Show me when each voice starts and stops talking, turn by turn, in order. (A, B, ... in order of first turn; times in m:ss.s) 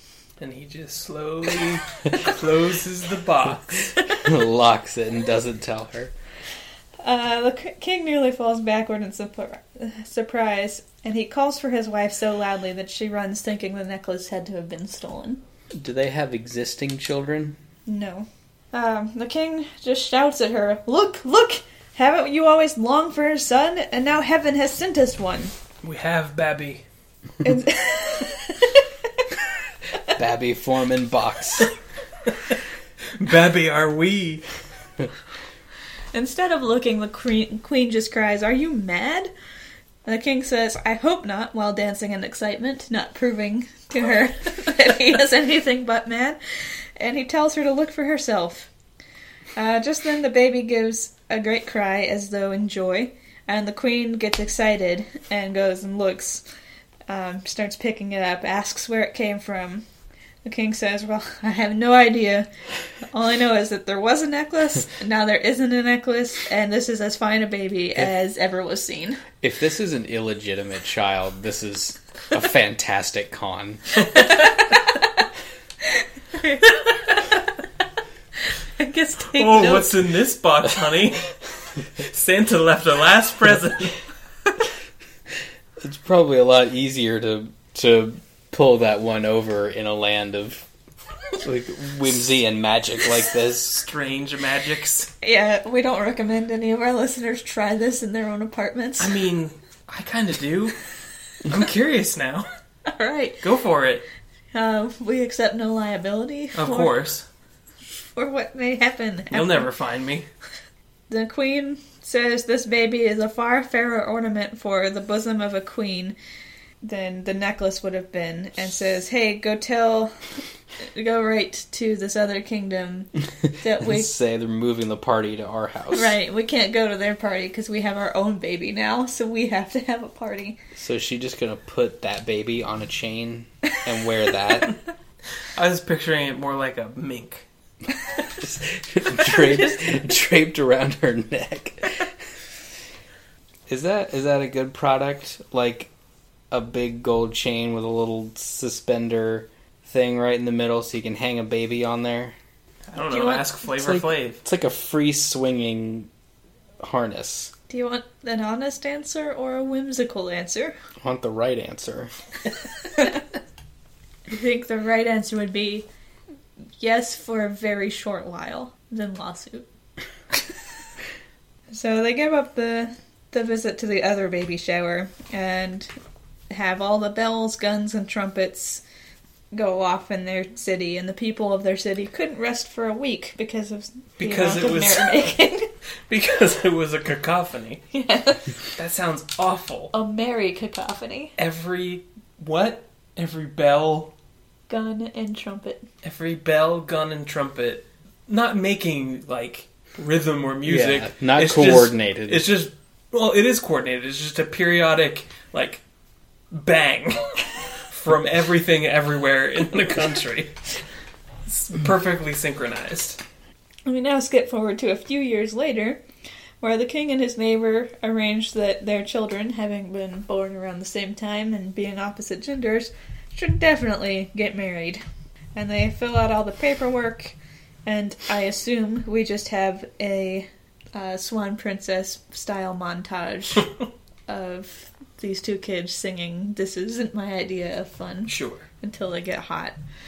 0:00.4-0:04.0 A
0:04.0-0:06.1 B
0:07.0-0:15.4 C
0:15.7-0:17.6 B
0:17.9-0:25.5 C
0:25.8-0:26.8 A
0:27.4-0:28.9 C
0:30.1-0:31.7 B
0:33.2-0:34.4 A
0:36.1-0:39.3 C
0:40.0-0:48.7 C
0:49.6-0:56.4 C
0:57.1-0:59.8 C
1:00.4-1:02.5 C
1:03.1-1:09.2 C
1:09.4-1:14.0 B
1:16.4-1:17.4 C
1:18.8-1:20.0 C
1:19.3-1:21.3 A
1:22.0-1:24.0 A
1:25.8-1:30.7 B
1:31.4-1:33.9 B
1:33.8-1:35.1 A
1:35.2-1:39.2 C
1:39.0-1:40.8 A
1:41.4-1:42.5 A
1:42.9-1:43.4 C
1:43.4-1:44.0 A
1:44.5-1:47.0 C
1:46.6-1:47.2 A
1:48.0-1:49.7 C
1:49.3-1:50.3 A
1:51.1-1:56.2 C
1:56.8-2:04.1 C
2:03.4-2:06.1 B
2:05.9-2:10.6 C
2:10.8-2:14.8 B
2:15.6-2:17.5 A
2:18.3-2:22.1 B
2:23.7-2:25.9 B
2:26.5-2:32.4 B
2:32.9-2:34.4 A
2:33.1-2:33.6 C
2:33.8-2:36.1 B
2:36.8-2:37.5 B
2:37.7-2:40.8 C
2:41.0-2:42.1 B
2:44.3-2:45.9 C
2:46.8-2:49.7 C
2:51.7-2:55.9 C
2:56.5-2:58.8 C
2:59.5-3:05.7 C
3:04.2-3:05.2 A
3:06.1-3:07.8 A
3:07.9-3:08.5 C
3:08.8-3:09.9 A
3:09.9-3:11.3 C
3:11.4-3:14.1 A
3:14.7-3:15.8 C
3:16.0-3:25.8 A
3:20.6-3:22.5 B
3:26.5-3:30.5 A
3:31.5-3:33.2 A
3:33.9-3:36.0 C
3:36.6-3:45.0 C
3:45.6-3:53.7 C
3:54.3-3:59.8 C
3:58.3-3:58.7 A